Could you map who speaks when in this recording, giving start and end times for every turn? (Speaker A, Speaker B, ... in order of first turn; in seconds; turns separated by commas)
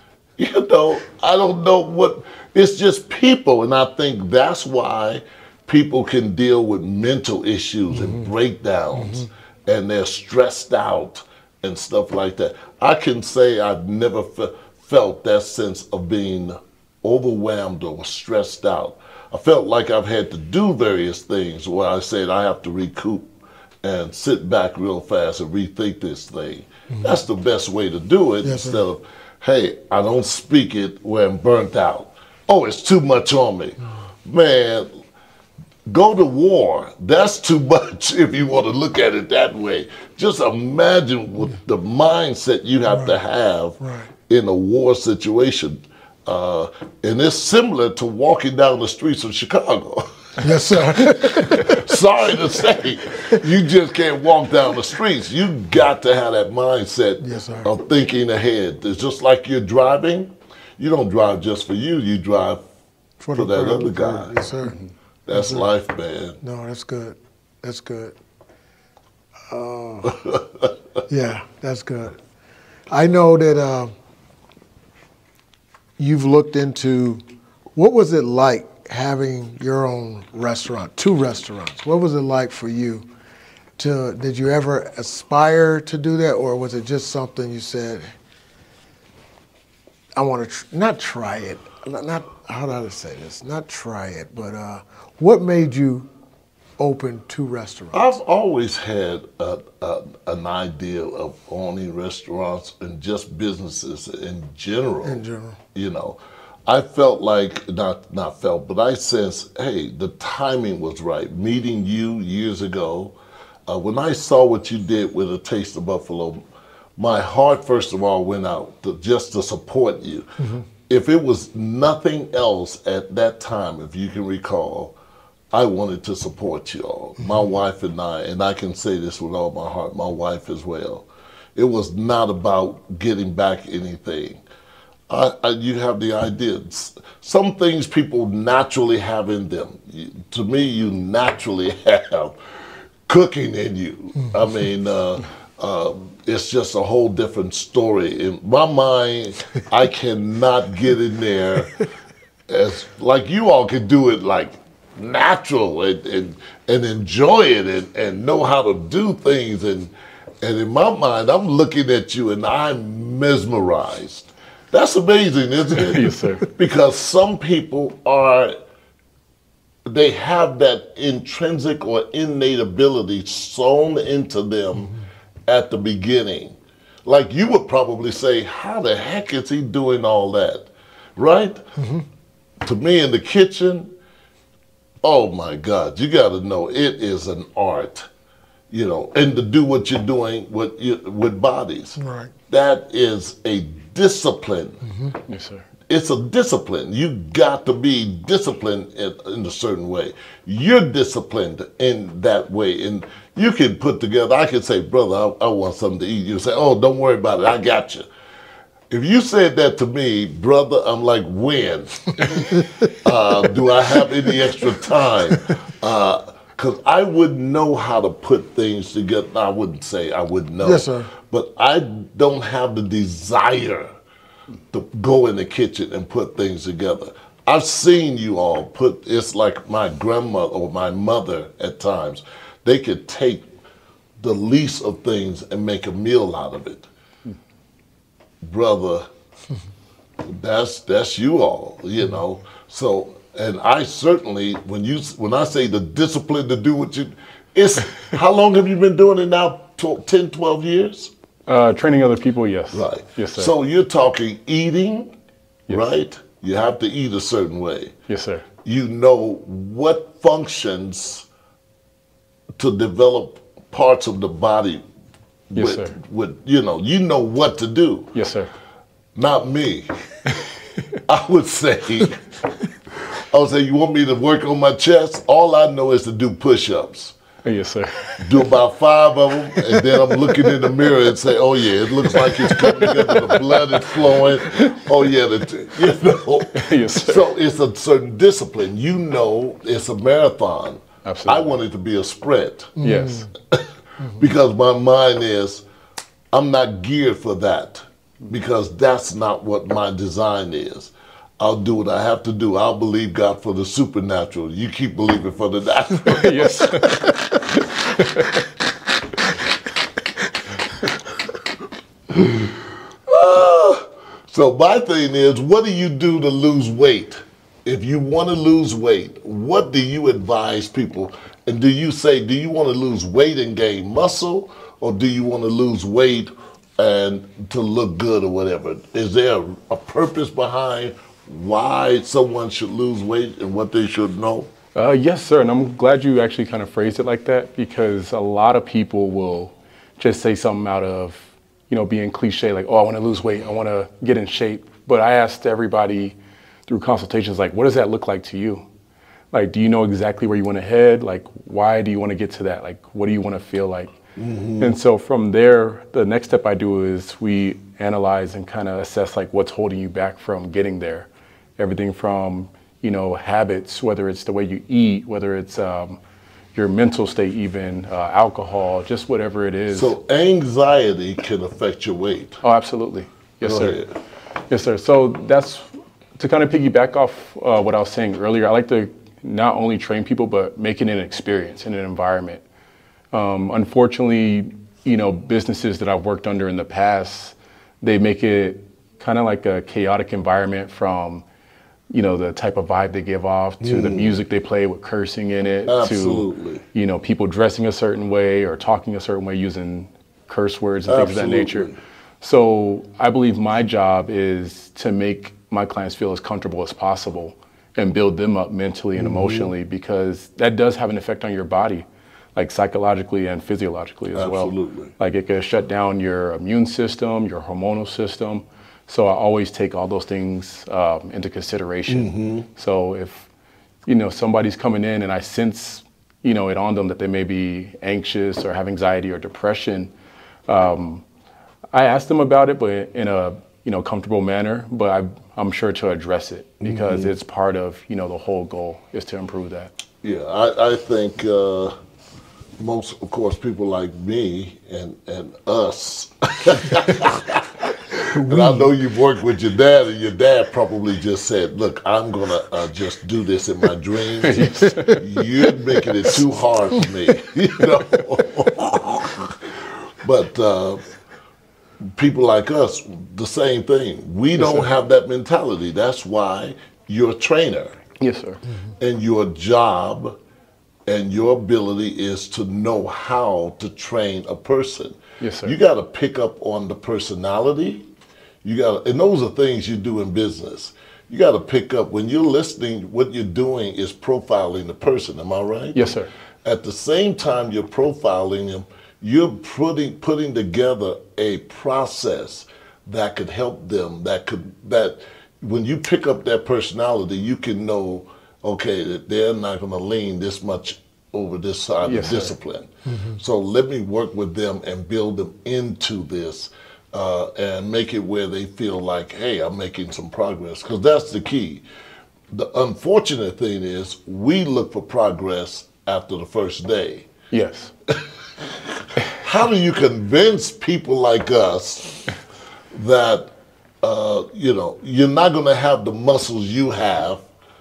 Speaker A: 0.4-23.3, Speaker B: 7.9-8.3, Speaker B: 9.0-9.3, Speaker A: 23.8-34.9, Speaker B: 26.9-27.2, Speaker B: 28.4-28.8, Speaker A: 35.9-62.6, Speaker B: 42.9-43.1, Speaker B: 43.8-44.1, Speaker B: 50.4-51.9, Speaker B: 57.2-57.7, Speaker B: 63.2-64.8, Speaker A: 63.3-64.4, Speaker A: 65.3-66.4, Speaker B: 65.3-65.6, Speaker B: 66.4-68.1, Speaker B: 69.5-70.1, Speaker A: 70.0-70.7, Speaker B: 71.1-72.2, Speaker B: 72.9-73.9, Speaker B: 76.0-77.2, Speaker B: 77.8-83.1, Speaker B: 83.8-88.0, Speaker B: 90.2-96.1, Speaker B: 96.8-98.2, Speaker A: 97.9-105.2, Speaker B: 105.0-105.6, Speaker A: 105.7-113.1, Speaker A: 113.7-116.4, Speaker A: 117.0-120.2, Speaker B: 120.4-120.7, Speaker A: 120.9-124.9, Speaker A: 125.5-134.4, Speaker A: 135.1-142.4, Speaker A: 143.1-151.8, Speaker A: 152.5-168.6, Speaker C: 165.8-166.4, Speaker A: 169.9-174.9, Speaker A: 175.5-181.6, Speaker B: 181.8-182.0, Speaker A: 182.6-183.9, Speaker A: 185.0-188.1, Speaker A: 188.7-192.0, Speaker B: 192.0-192.3, Speaker A: 192.5-194.8, Speaker B: 194.8-195.1, Speaker C: 195.3-195.6, Speaker A: 195.9-208.1, Speaker A: 208.9-223.9, Speaker B: 212.5-212.9, Speaker B: 220.6-221.1, Speaker A: 224.7-233.5, Speaker A: 234.2-236.9, Speaker A: 238.4-239.1, Speaker A: 240.2-251.1, Speaker C: 251.5-253.5, Speaker A: 252.7-255.1, Speaker A: 255.7-257.9, Speaker C: 258.1-258.4, Speaker A: 258.6-261.2, Speaker A: 262.6-264.8, Speaker A: 265.5-268.1, Speaker C: 265.6-265.9, Speaker C: 268.1-268.5, Speaker A: 269.1-269.9, Speaker A: 271.1-272.2, Speaker A: 273.1-277.1, Speaker C: 277.4-278.5, Speaker A: 278.2-292.9, Speaker C: 279.6-280.6, Speaker C: 282.0-285.0, Speaker C: 286.5-287.3, Speaker C: 291.0-291.5, Speaker B: 292.8-293.3, Speaker C: 292.8-293.3, Speaker A: 293.4-295.6, Speaker A: 296.3-307.1, Speaker C: 306.0-308.5, Speaker A: 312.1-334.5, Speaker C: 334.7-346.1, Speaker C: 346.7-348.6, Speaker C: 349.3-353.9, Speaker A: 354.2-354.8, Speaker C: 354.6-366.0, Speaker C: 366.5-369.9, Speaker A: 369.7-372.4, Speaker C: 372.4-373.8, Speaker A: 373.4-373.9, Speaker C: 374.5-382.4, Speaker C: 383.1-391.2, Speaker C: 391.9-401.7, Speaker A: 393.6-394.2, Speaker A: 395.7-396.6, Speaker A: 400.9-401.7, Speaker C: 402.2-423.3, Speaker A: 408.9-409.5, Speaker A: 414.1-414.9, Speaker A: 421.9-422.5, Speaker C: 423.8-429.9, Speaker C: 430.5-431.0, Speaker C: 431.7-439.7, Speaker A: 436.6-437.1, Speaker A: 440.0-441.7, Speaker A: 442.6-460.9, Speaker B: 448.3-448.6, Speaker C: 454.2-455.0, Speaker A: 461.8-467.8, Speaker C: 464.4-464.7, Speaker C: 468.0-468.4, Speaker A: 468.8-470.2, Speaker A: 470.9-477.9, Speaker C: 475.2-475.5, Speaker A: 478.4-511.6, Speaker C: 485.7-486.1, Speaker C: 501.8-502.3, Speaker B: 502.9-503.2, Speaker A: 512.3-517.1, Speaker C: 517.3-517.7, Speaker A: 518.7-522.1, Speaker A: 522.7-523.3, Speaker A: 523.8-527.2